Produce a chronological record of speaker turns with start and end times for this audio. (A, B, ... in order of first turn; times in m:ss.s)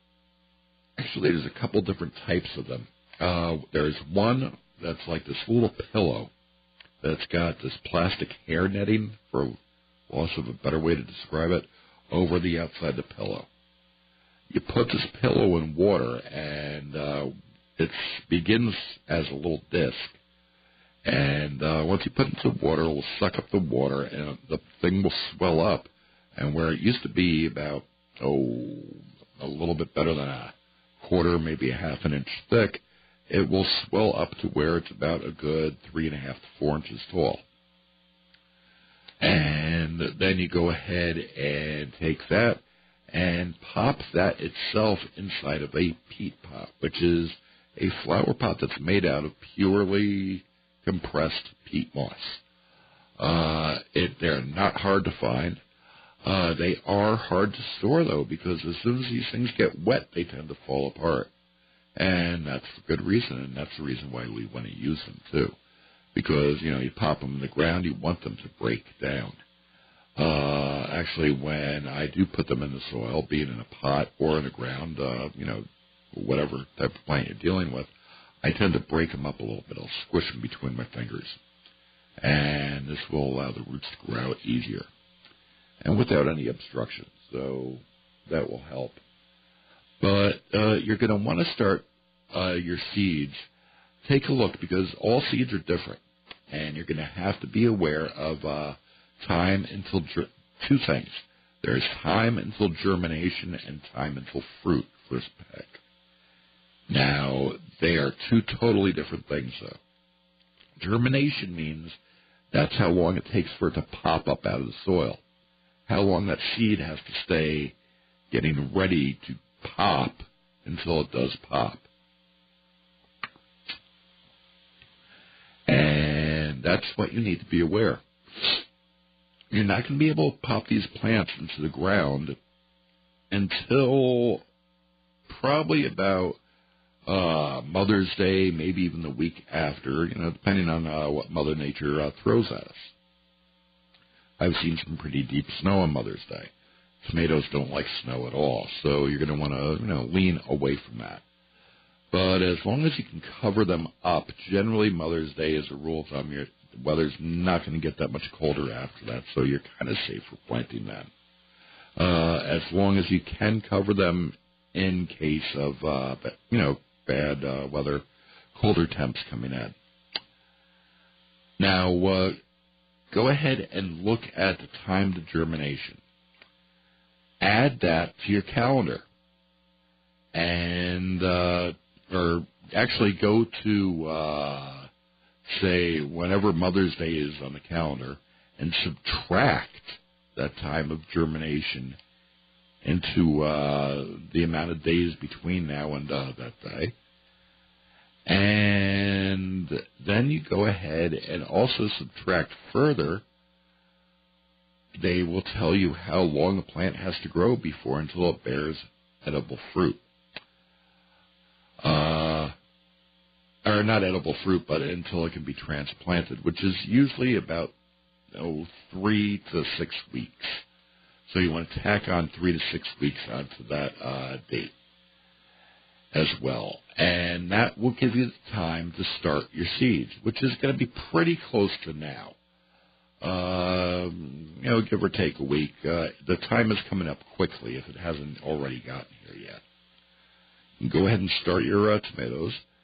0:01.0-0:06.3 A
0:07.0-0:09.6 A
0:10.1-0:13.5 A
0:14.5-0:20.2 A
0:21.0-0:37.4 A
0:39.2-0:52.4 A
0:53.2-0:55.6 A
0:56.2-1:01.3 A
1:02.0-1:05.5 A
1:06.1-1:09.4 A
1:10.2-1:17.9 A
1:18.4-1:21.4 A
1:22.2-1:24.9 A
1:25.8-1:29.0 A
1:30.0-1:33.5 A
1:34.0-1:45.8 A
1:46.9-1:49.8 A
1:50.8-1:52.0 A
1:52.5-1:55.2 A
1:55.9-1:57.7 A
1:58.3-2:01.8 A
2:05.7-2:08.6 A
2:09.5-2:12.4 A
2:13.3-2:14.4 A
2:15.3-2:16.4 A
2:17.1-2:22.9 A
2:24.4-2:26.5 A
2:27.0-2:31.2 A
2:32.1-2:41.1 A
2:42.0-2:48.0 A
2:48.5-2:49.7 A
2:51.6-2:52.4 A
2:53.1-2:56.0 A
2:57.4-2:59.0 A
3:00.3-3:04.9 A
3:05.4-3:12.0 A
3:12.8-3:16.9 A
3:18.2-3:23.2 A
3:25.0-3:30.0 A
3:31.8-3:32.5 A
3:33.6-3:37.7 A
3:38.3-3:40.6 A
3:41.3-3:44.7 A
3:46.1-3:52.4 A
3:53.2-3:59.6 A
4:00.8-4:02.6 A